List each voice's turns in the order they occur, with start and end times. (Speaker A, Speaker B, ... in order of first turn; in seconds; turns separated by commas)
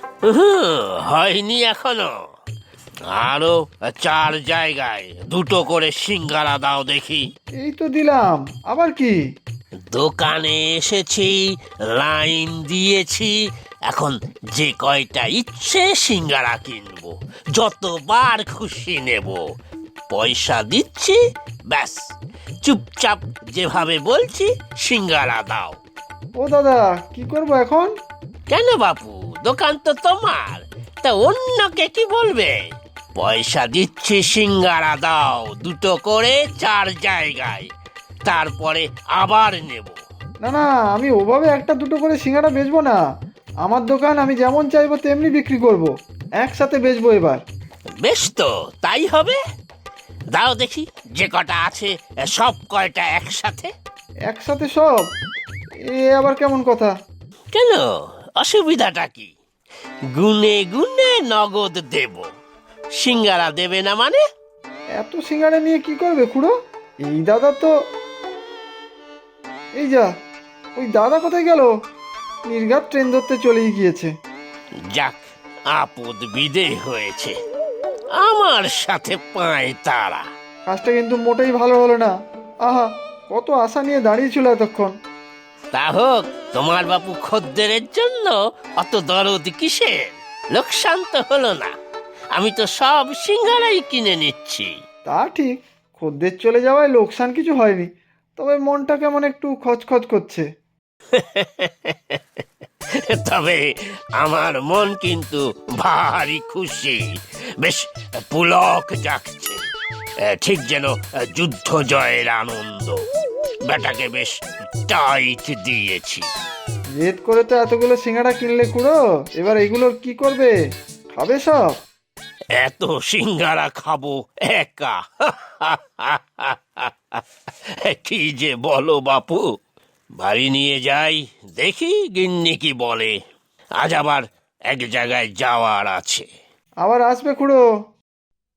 Speaker A: 0.3-2.1, Speaker A: 3.1-7.2, Speaker B: 7.6-9.2, Speaker A: 9.9-11.4, Speaker A: 11.9-13.3, Speaker A: 13.9-19.4, Speaker A: 20.1-22.0, Speaker A: 22.6-25.8, Speaker B: 26.4-27.9, Speaker A: 28.5-32.6, Speaker A: 33.2-37.7, Speaker A: 38.2-40.0, Speaker B: 40.4-43.0, Speaker B: 43.6-47.4, Speaker A: 48.0-49.4, Speaker A: 50.3-53.7, Speaker B: 54.3-55.1, Speaker B: 55.9-56.9, Speaker A: 57.5-59.3, Speaker A: 60.1-62.2, Speaker A: 63.0-64.2, Speaker B: 65.0-66.5, Speaker B: 67.0-67.7, Speaker B: 69.8-70.1, Speaker B: 70.8-71.7, Speaker B: 72.5-74.1, Speaker A: 74.9-77.3, Speaker A: 78.2-80.2, Speaker B: 80.7-82.1, Speaker B: 82.6-84.9, Speaker A: 85.7-91.7, Speaker A: 92.3-94.7, Speaker B: 95.1-100.5, Speaker A: 101.1-102.2, Speaker A: 103.1-103.6, Speaker A: 104.2-107.0, Speaker A: 107.6-109.6, Speaker A: 110.2-113.0, Speaker A: 113.7-114.3, Speaker A: 114.9-116.2, Speaker B: 117.0-120.5, Speaker B: 121.1-121.8, Speaker A: 122.6-127.2, Speaker A: 127.8-129.4, Speaker A: 130.2-133.1, Speaker A: 133.8-136.3, Speaker B: 136.8-137.6